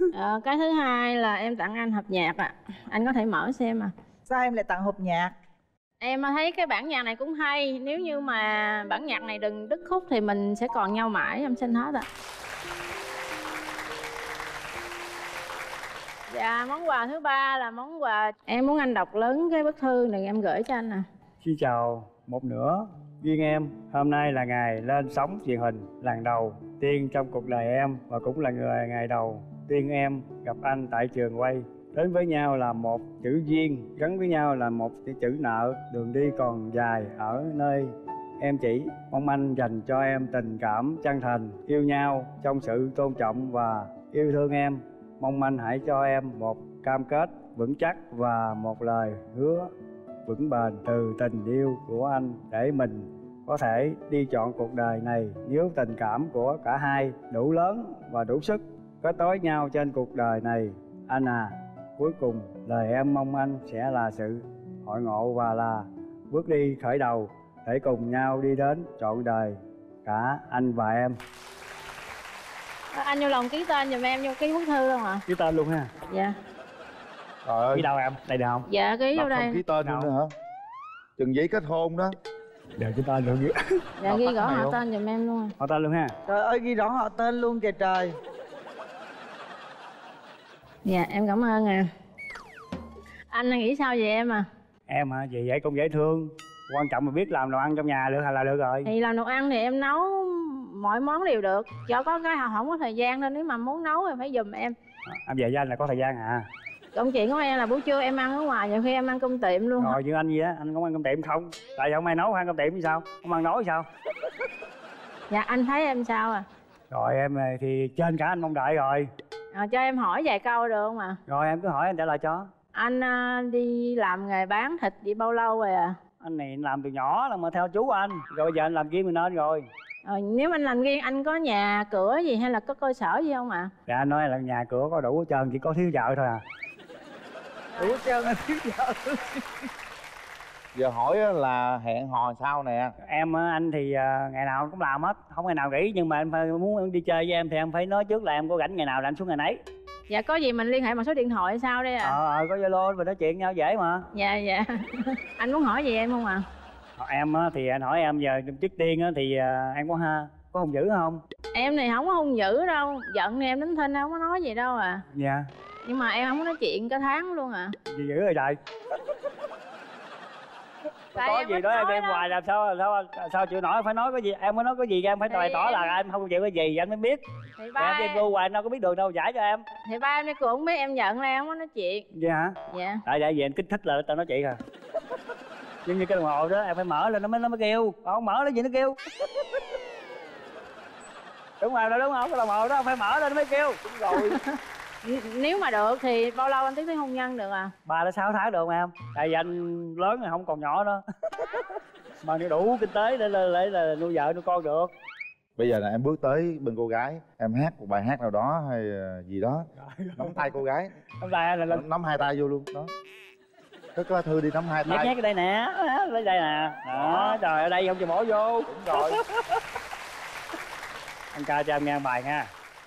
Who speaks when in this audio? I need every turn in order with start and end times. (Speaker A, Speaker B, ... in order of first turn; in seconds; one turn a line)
Speaker A: 0.1-3.9
Speaker B: 4.3-5.3
Speaker A: 6.0-12.1
Speaker A: 16.3-21.1
Speaker C: 21.4-49.7
Speaker C: 50.2-71.2
Speaker A: 72.9-75.2
Speaker C: 75.3-75.9
Speaker A: 76.1-76.3
Speaker D: 77.4-77.9
Speaker C: 77.7-78.7
Speaker A: 78.7-79.6
Speaker D: 79.2-80.3
Speaker C: 79.8-80.1
Speaker D: 81.2-82.1
Speaker C: 82.8-83.5
Speaker A: 84.0-85.5
Speaker D: 84.0-84.8
Speaker C: 85.6-86.1
Speaker B: 86.2-88.1
Speaker A: 90.8-91.9
Speaker A: 93.3-94.5
Speaker C: 94.9-98.9
Speaker A: 98.8-104.7
Speaker C: 105.1-106.5
Speaker A: 106.9-110.0
Speaker C: 109.8-113.8
Speaker A: 115.3-116.4
Speaker C: 116.9-119.1
Speaker A: 119.5-121.2
Speaker C: 121.3-122.5
Speaker A: 122.7-126.0
Speaker C: 126.2-129.7
Speaker A: 130.0-133.7
Speaker C: 133.9-136.4
Speaker A: 137.7-138.0
Speaker B: 137.8-139.7
Speaker D: 140.7-142.9
Speaker C: 143.1-149.6
Speaker A: 150.1-152.2
Speaker C: 152.0-154.1
Speaker A: 154.1-156.4
Speaker C: 157.0-161.2
Speaker A: 161.5-165.0
Speaker C: 165.1-165.5
Speaker A: 165.8-167.7
Speaker C: 167.9-168.6
Speaker C: 171.1-177.2
Speaker A: 171.2-172.3
Speaker A: 175.3-176.0
Speaker A: 177.6-178.2
Speaker C: 177.8-179.7
Speaker A: 179.8-182.1
Speaker C: 182.1-184.6
Speaker A: 182.7-183.0
Speaker C: 185.8-189.0
Speaker C: 191.6-193.8
Speaker D: 193.8-194.4
Speaker A: 194.1-197.7
Speaker C: 197.8-201.6
Speaker C: 202.2-204.9
Speaker D: 205.6-209.7
Speaker C: 209.8-210.5
Speaker D: 210.2-210.9
Speaker C: 211.2-211.8
Speaker D: 211.7-212.9
Speaker D: 213.9-215.1
Speaker C: 214.8-219.6
Speaker D: 216.9-217.4
Speaker D: 218.7-219.2
Speaker C: 221.3-222.5